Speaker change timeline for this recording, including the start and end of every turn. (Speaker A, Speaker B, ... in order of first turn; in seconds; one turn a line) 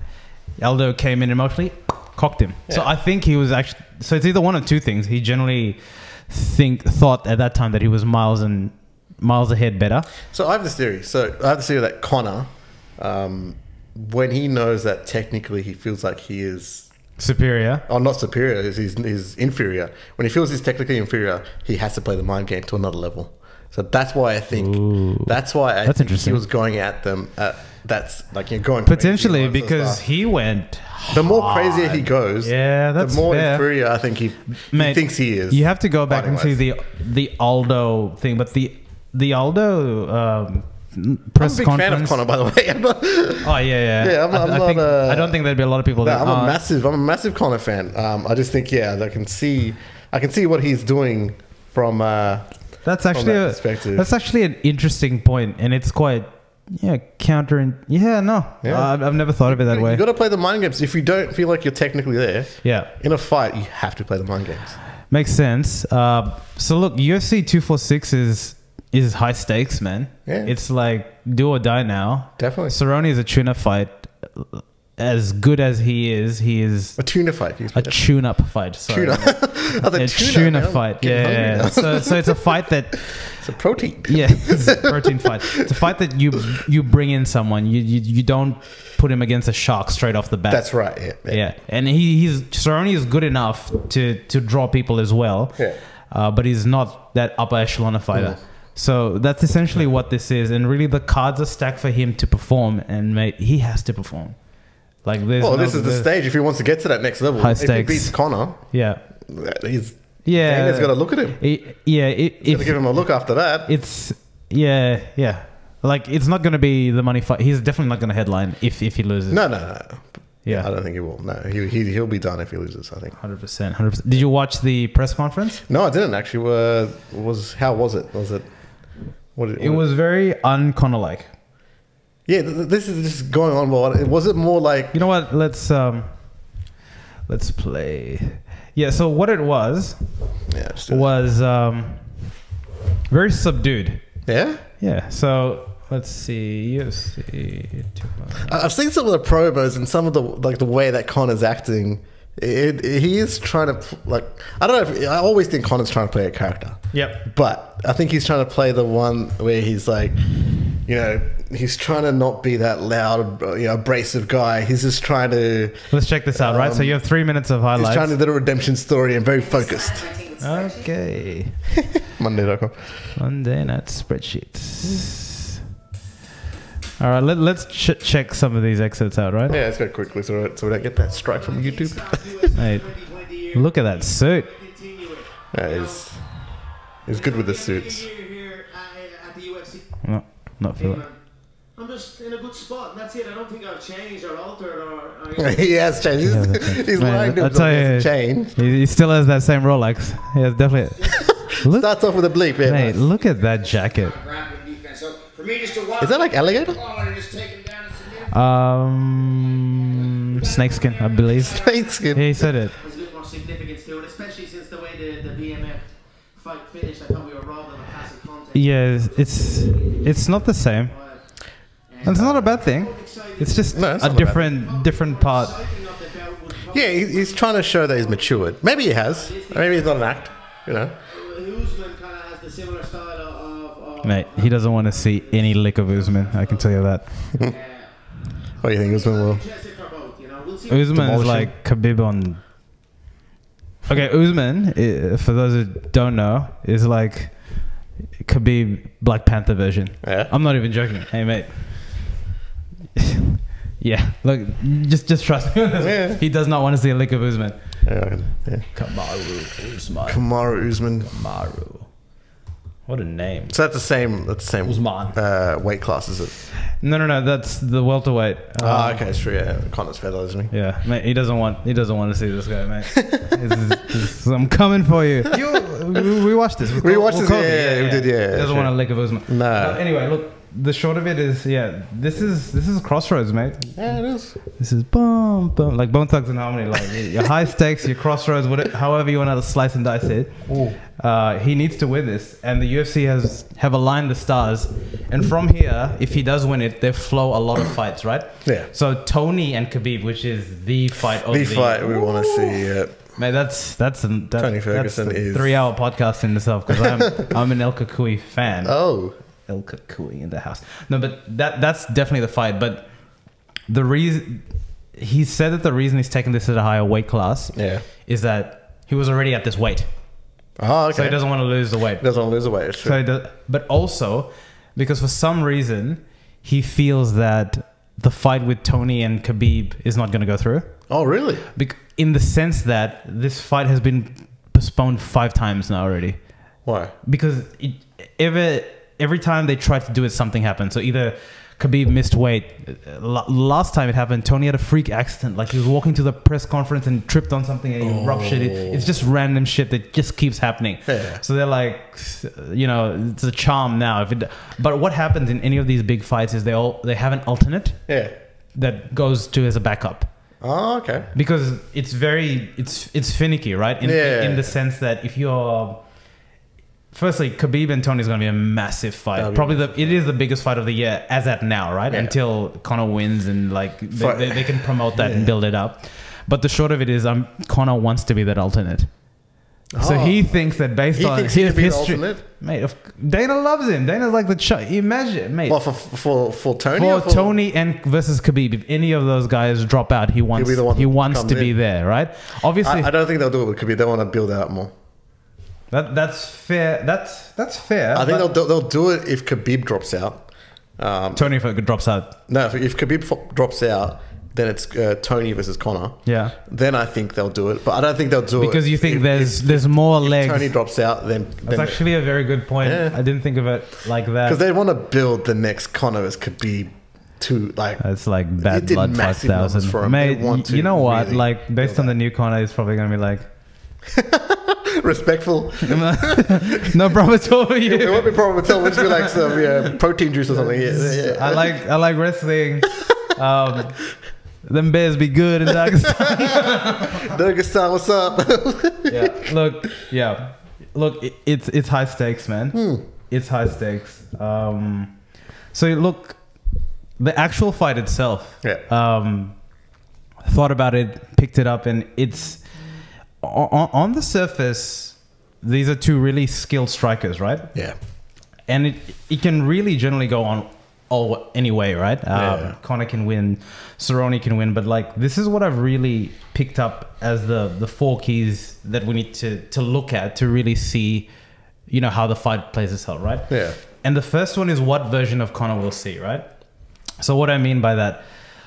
Speaker A: 0.6-10.1
Speaker B: 10.3-17.1
Speaker A: 17.2-17.9
Speaker B: 17.9-30.1
Speaker A: 24.6-26.4
Speaker A: 28.9-34.0
Speaker B: 31.1-36.6
Speaker A: 34.7-42.2
Speaker B: 41.4-54.1
Speaker A: 43.4-46.6
Speaker A: 52.8-60.0
Speaker B: 58.6-64.8
Speaker A: 62.6-62.9
Speaker A: 65.1-106.1
Speaker B: 70.3-70.5
Speaker B: 72.4-72.8
Speaker B: 77.0-82.5
Speaker B: 83.1-84.9
Speaker B: 90.5-91.4
Speaker B: 98.1-98.4
Speaker B: 105.4-111.8
Speaker A: 107.4-109.0
Speaker A: 110.2-119.8
Speaker B: 112.4-113.7
Speaker B: 119.3-123.5
Speaker A: 123.2-125.6
Speaker B: 125.7-129.8
Speaker A: 129.6-131.3
Speaker B: 132.3-135.0
Speaker A: 134.9-136.7
Speaker A: 137.3-142.4
Speaker B: 140.5-141.1
Speaker A: 143.1-144.3
Speaker B: 144.3-144.6
Speaker A: 144.8-148.5
Speaker B: 148.4-167.0
Speaker A: 156.9-157.2
Speaker A: 165.9-168.1
Speaker B: 167.8-170.2
Speaker A: 170.4-171.7
Speaker B: 172.0-173.2
Speaker A: 173.2-175.5
Speaker B: 174.8-175.1
Speaker A: 177.0-179.6
Speaker B: 179.5-182.5
Speaker C: 180.3-186.3
Speaker A: 182.6-184.5
Speaker B: 185.5-186.4
Speaker B: 187.1-188.1
Speaker C: 187.1-196.2
Speaker A: 190.0-191.0
Speaker B: 195.4-198.5
Speaker A: 196.2-202.0
Speaker B: 201.2-203.0
Speaker A: 202.6-204.2
Speaker C: 203.4-208.3
Speaker B: 206.0-206.8
Speaker A: 208.3-212.8
Speaker C: 210.3-212.0
Speaker B: 211.5-212.6
Speaker C: 212.8-220.3
Speaker A: 218.5-221.4
Speaker C: 220.9-229.9
Speaker A: 222.0-225.6
Speaker B: 222.0-222.5
Speaker B: 223.7-224.5
Speaker B: 226.7-230.9
Speaker C: 231.0-240.9
Speaker A: 234.0-237.3
Speaker B: 238.6-239.4
Speaker A: 240.7-242.5
Speaker B: 240.9-241.5
Speaker A: 243.9-252.2
Speaker B: 250.0-250.3
Speaker A: 253.0-262.1
Speaker B: 255.8-256.2
Speaker B: 257.9-258.8
Speaker B: 260.1-261.1
Speaker A: 262.9-263.6
Speaker B: 263.5-266.5
Speaker A: 264.6-265.2
Speaker A: 266.7-269.0
Speaker B: 268.6-270.5
Speaker A: 270.5-319.9
Speaker B: 273.0-273.3
Speaker B: 276.8-279.8
Speaker B: 283.8-284.4
Speaker B: 290.5-290.8
Speaker B: 298.4-298.7
Speaker B: 301.3-303.1
Speaker B: 304.4-305.7
Speaker B: 308.6-309.1
Speaker B: 317.5-317.9
Speaker B: 320.6-323.0
Speaker A: 320.9-322.2
Speaker A: 322.8-336.4
Speaker B: 330.9-331.4
Speaker B: 336.6-336.9
Speaker A: 337.0-357.9
Speaker B: 347.8-348.9
Speaker B: 350.9-351.2
Speaker B: 357.9-358.1
Speaker A: 358.5-360.1
Speaker B: 360.4-361.1
Speaker A: 361.1-365.9
Speaker B: 363.8-364.5
Speaker A: 366.9-385.6
Speaker B: 369.1-369.9
Speaker B: 371.9-372.2
Speaker B: 373.9-375.3
Speaker B: 379.7-382.2
Speaker B: 385.5-387.3
Speaker A: 386.7-392.9
Speaker B: 390.3-391.6
Speaker B: 392.6-394.7
Speaker A: 395.7-398.3
Speaker B: 397.9-401.4
Speaker A: 401.1-402.2
Speaker B: 402.3-411.9
Speaker A: 406.1-406.4
Speaker A: 408.4-410.6
Speaker A: 411.5-414.4
Speaker B: 412.6-413.0
Speaker B: 414.2-421.9
Speaker A: 417.8-423.3
Speaker B: 423.9-426.7
Speaker A: 425.7-429.4
Speaker B: 427.6-431.6
Speaker A: 430.3-437.1
Speaker B: 435.6-439.3
Speaker A: 438.9-449.6
Speaker B: 442.5-442.8
Speaker A: 450.3-452.6
Speaker A: 453.2-457.6
Speaker A: 458.4-471.1
Speaker B: 462.1-462.6
Speaker A: 471.7-476.4
Speaker B: 473.3-473.6
Speaker A: 477.0-478.1